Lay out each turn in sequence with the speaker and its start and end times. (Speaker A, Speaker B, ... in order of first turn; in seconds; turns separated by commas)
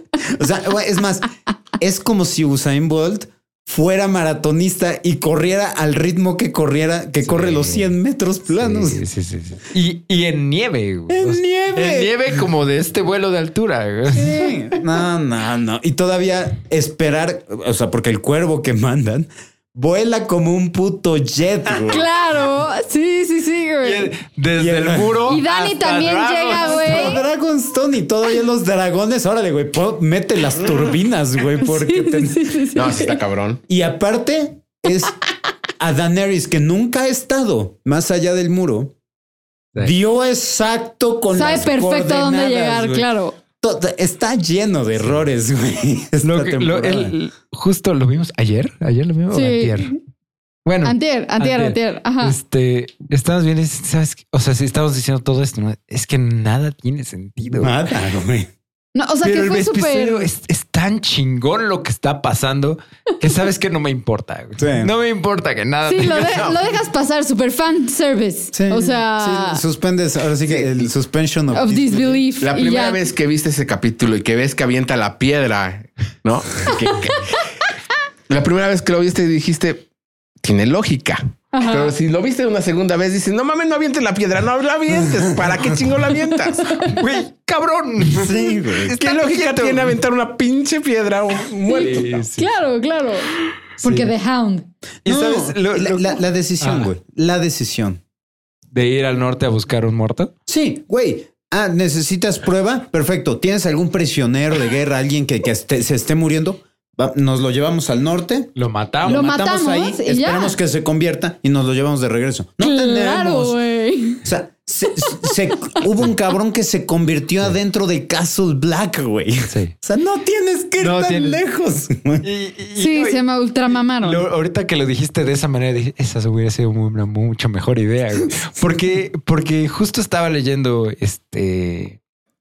Speaker A: 0.2-9.0, Speaker B: 7.2-7.9, Speaker B: 8.5-14.4, Speaker A: 11.1-12.4, Speaker C: 14.1-14.6, Speaker A: 14.2-22.1, Speaker C: 21.9-24.1, Speaker B: 23.8-27.2, Speaker A: 24.6-25.2, Speaker C: 25.2-27.2, Speaker A: 26.6-32.6, Speaker C: 31.6-33.2, Speaker D: 32.7-33.6, Speaker A: 33.7-35.1, Speaker A: 35.8-38.9, Speaker A: 39.8-43.1, Speaker C: 41.3-43.4, Speaker A: 43.6-47.1, Speaker B: 46.2-49.9, Speaker C: 49.3-50.0, Speaker B: 50.6-57.7, Speaker C: 50.8-52.4, Speaker A: 57.5-58.5, Speaker C: 58.9-60.3, Speaker B: 59.2-66.6, Speaker A: 64.6-64.9, Speaker C: 65.8-69.6, Speaker A: 68.5-72.2, Speaker C: 71.5-73.0, Speaker D: 72.4-77.5, Speaker D: 78.3-79.9, Speaker D: 80.4-86.9, Speaker C: 81.5-81.9, Speaker B: 86.8-90.0, Speaker A: 88.1-89.0, Speaker D: 88.9-92.3, Speaker B: 91.7-92.5, Speaker C: 91.7-94.7, Speaker B: 93.8-94.1, Speaker B: 95.0-96.9, Speaker A: 95.0-98.0, Speaker B: 98.7-100.3, Speaker A: 100.5-108.5, Speaker B: 108.5-109.3, Speaker A: 109.0-113.6, Speaker C: 109.1-110.5, Speaker C: 112.6-114.2, Speaker A: 114.2-122.2, Speaker C: 115.0-115.3, Speaker B: 119.5-119.7, Speaker B: 120.8-121.4, Speaker B: 122.2-123.2, Speaker C: 122.8-124.2, Speaker B: 124.0-132.0